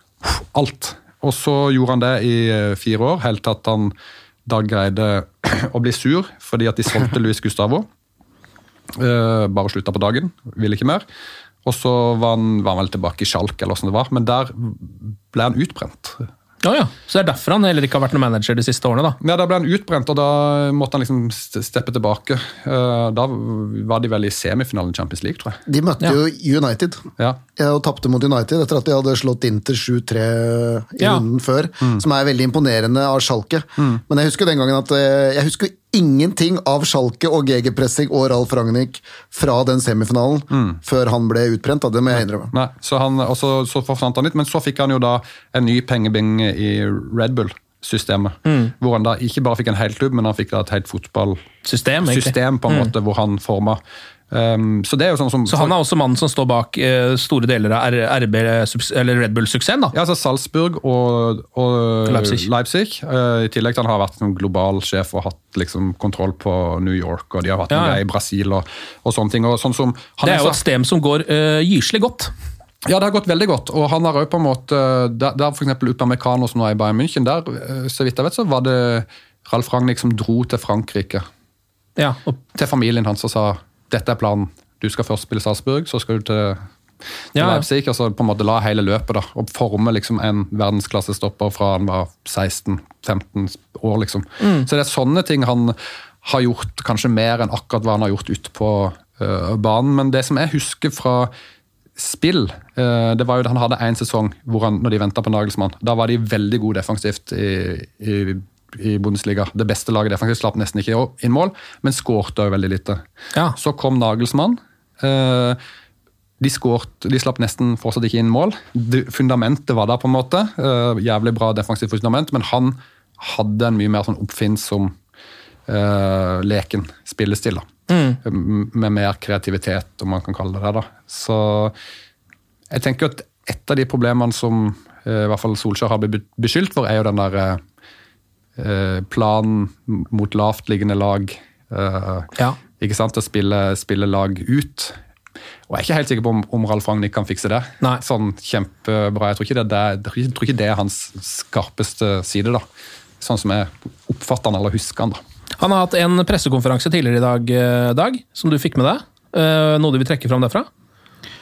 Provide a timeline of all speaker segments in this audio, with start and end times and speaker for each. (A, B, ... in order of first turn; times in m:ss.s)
0:00.2-0:03.9 A
0:04.4-0:07.9 A
0:09.0-0:11.0 A
0:11.6-0:16.3 A
0:16.6-0:19.2 B
0:19.2-0:25.6 A
0:25.6-0:27.0 C
0:27.6-0:42.5 C
0:40.5-0:40.8 A
0:42.5-0:51.4 A
0:48.4-0:48.7 B
0:51.6-0:52.9 B
0:52.0-0:53.8 A
0:54.3-0:55.7 A
0:55.5-0:59.9 B
0:59.9-1:10.6 A
1:02.1-1:02.4 B
1:07.7-1:08.0 B
1:10.2-1:12.3 B
1:12.8-1:21.2 A
1:22.0-1:22.4 B
1:22.5-1:26.6 A
1:27.3-1:41.3 A
1:27.4-1:27.6 B
1:34.4-1:34.7 B
1:42.0-1:53.0 A
1:53.6-1:55.6 A
1:56.4-2:04.9 A
2:05.7-2:07.7 A
2:07.9-2:08.2 B
2:08.2-2:11.7 A
2:12.7-2:17.6 A
2:18.6-2:25.0 A
2:25.7-2:32.6 A
2:33.2-2:35.2 A
2:35.6-2:40.7 B